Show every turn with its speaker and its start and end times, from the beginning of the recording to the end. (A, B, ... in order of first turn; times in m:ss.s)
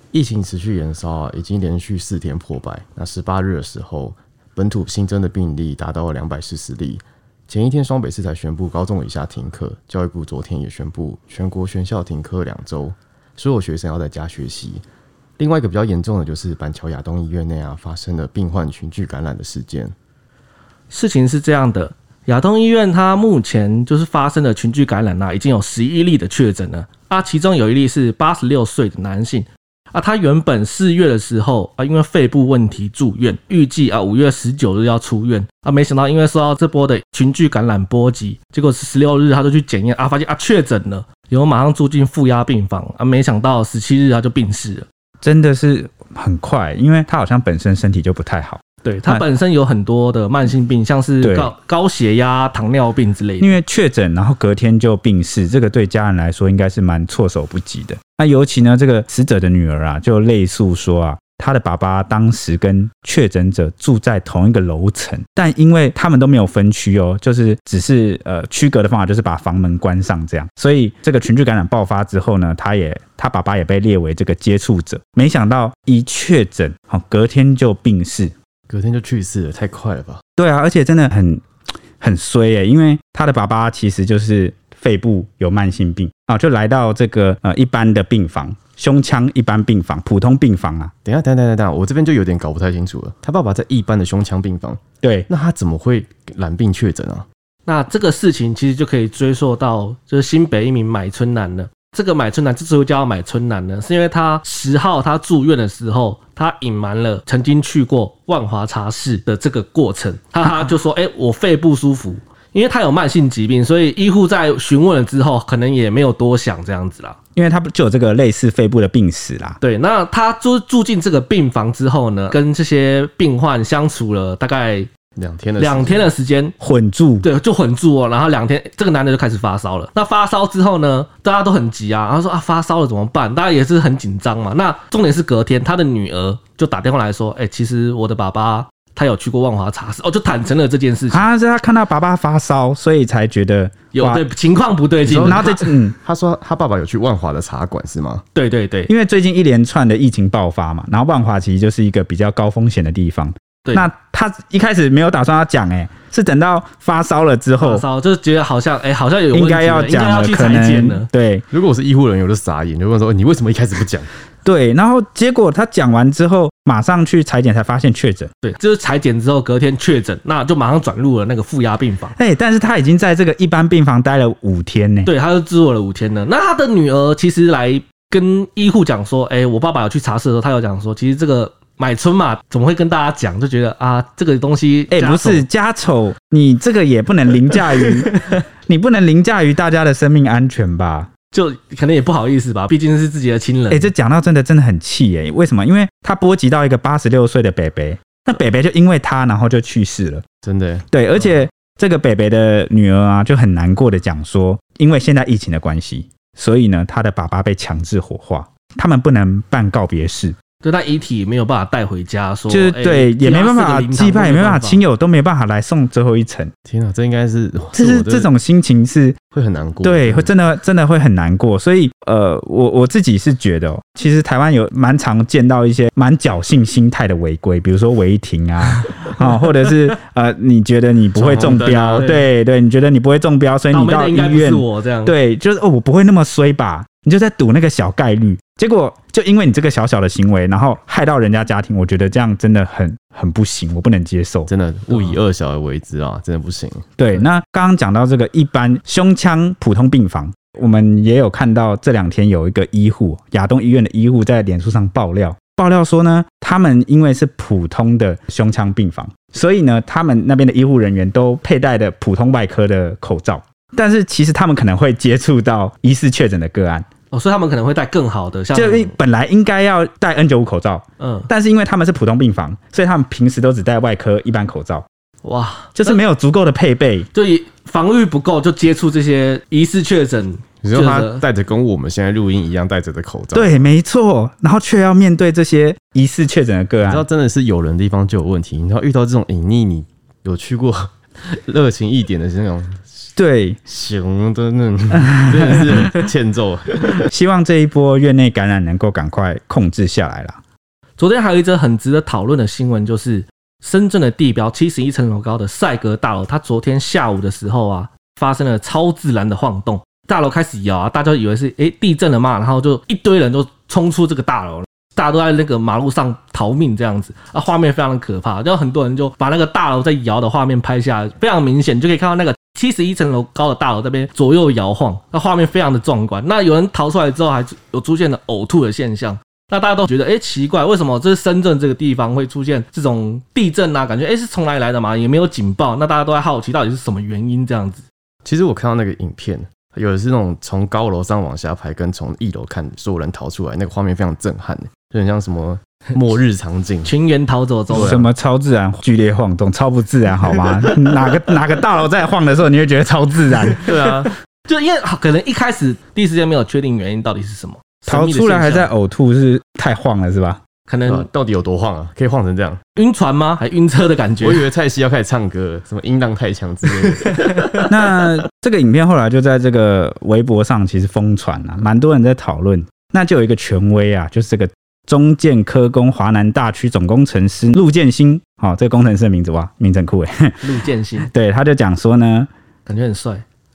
0:00.1-0:14.8 A
0:15.4-0:19.9 A
0:20.9-0:44.8 B
0:45.2-0:49.2 C
0:48.8-0:53.6 B
0:51.2-0:51.5 C
0:53.4-1:18.3 C
1:18.7-1:20.2 A
1:20.4-1:21.4 C
1:22.0-1:30.9 C
1:31.0-1:37.2 A
1:35.0-1:35.3 C
1:37.6-1:57.2 B
1:57.3-1:59.6 C
1:59.6-2:04.9 B
2:05.2-2:06.1 A
2:05.6-2:06.5 B
2:06.6-2:07.3 C
2:07.2-2:21.3 B
2:21.1-2:24.2 C
2:23.9-2:25.7 B
2:25.0-2:28.2 A
2:25.2-2:26.0 C
2:28.3-2:28.9 B
2:28.9-2:37.8 C
2:37.6-2:41.1 B
2:39.3-2:41.4 C
2:41.5-2:44.1 A
2:44.4-2:48.3 C
2:48.4-2:52.1 B
2:52.2-2:55.1 C
2:55.0-3:05.4 B
3:04.9-3:08.1 C
3:07.8-3:08.4 B
3:08.7-3:11.1 C
3:11.3-3:13.9 B
3:13.7-3:20.2 C
3:20.4-3:20.8 A
3:20.9-3:30.4 C
3:30.6-3:34.8 B
3:32.5-3:36.5 C
3:36.6-3:38.3 A
3:37.7-3:39.2 C
3:39.3-3:40.3 A
3:39.8-4:04.5 C
3:51.1-3:52.1 A
3:52.0-3:52.2 B
3:53.7-3:55.1 B
4:04.5-4:07.0 A
4:07.0-4:26.8 C
4:27.1-4:28.9 B
4:28.5-4:34.8 C
4:31.0-4:31.3 B
4:35.2-4:36.0 B
4:35.8-4:37.1 C
4:37.1-4:41.2 B
4:40.6-4:43.7 A
4:43.3-4:47.0 C
4:46.8-4:53.1 A
4:53.2-4:53.6 C
4:53.7-4:57.1 A
4:55.1-4:55.9 C
4:57.1-5:00.4 C
5:01.0-5:37.8 B
5:38.2-5:46.9 A
5:46.8-5:48.0 B
5:47.7-5:48.1 A
5:47.7-5:53.7 C
5:53.6-5:54.1 A
5:54.4-5:58.7 B
5:57.9-6:00.4 C
6:00.7-6:01.1 B
6:00.9-6:02.6 A
6:02.8-6:04.4 B
6:04.2-6:07.6 A
6:07.2-6:07.6 B
6:07.7-6:20.4 C
6:20.4-6:21.1 B
6:21.1-6:22.3 C
6:22.6-6:23.2 B